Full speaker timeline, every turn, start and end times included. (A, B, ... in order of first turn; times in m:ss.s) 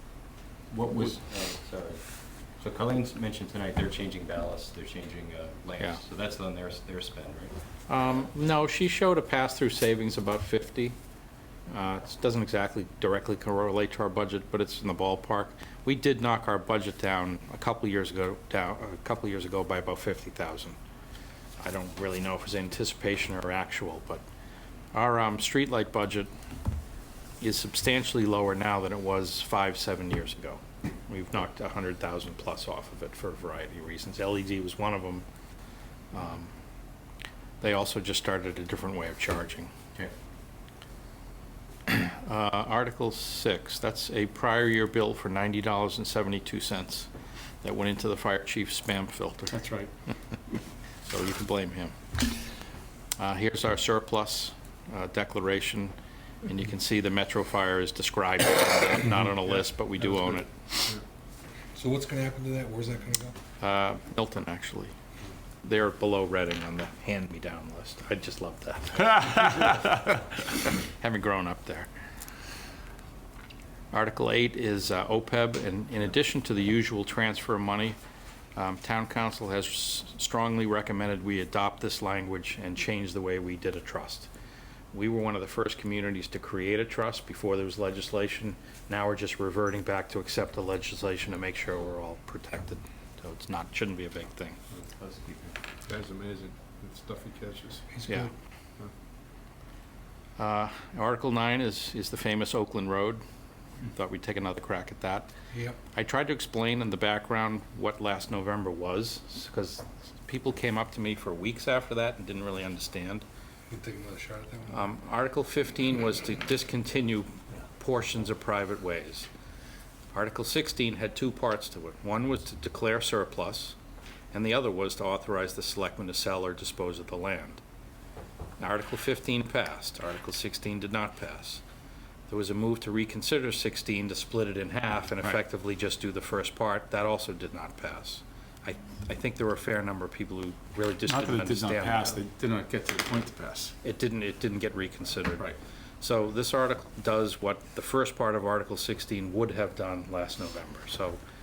0:00.4-0:07.5 A
0:07.9-0:11.0 B
0:11.7-0:20.8 B
0:21.6-0:24.2 B
0:24.9-0:26.3 B
0:27.4-0:35.2 B
0:36.1-0:36.5 B
0:37.6-0:39.7 B
0:41.9-0:47.1 B
0:47.6-0:49.6 B
0:49.5-0:49.9 C
0:51.0-0:52.0 B
0:53.2-1:00.5 B
1:01.8-1:03.4 D
1:03.6-1:04.9 B
1:05.6-1:11.9 B
1:13.9-1:18.0 B
1:18.6-1:24.3 B
1:24.9-1:34.6 B
1:34.8-1:35.6 A
1:35.9-1:37.9 E
1:37.9-1:38.3 D
1:40.4-1:43.2 B
1:43.9-1:45.3 B
1:45.5-1:45.8 D
1:45.9-1:53.2 B
1:53.7-1:54.9 D
1:54.7-1:59.3 B
2:00.1-2:03.8 B
2:04.3-2:07.6 B
2:08.6-2:11.6 B
2:12.3-2:22.2 B
2:21.1-2:23.8 C
2:23.8-2:31.2 B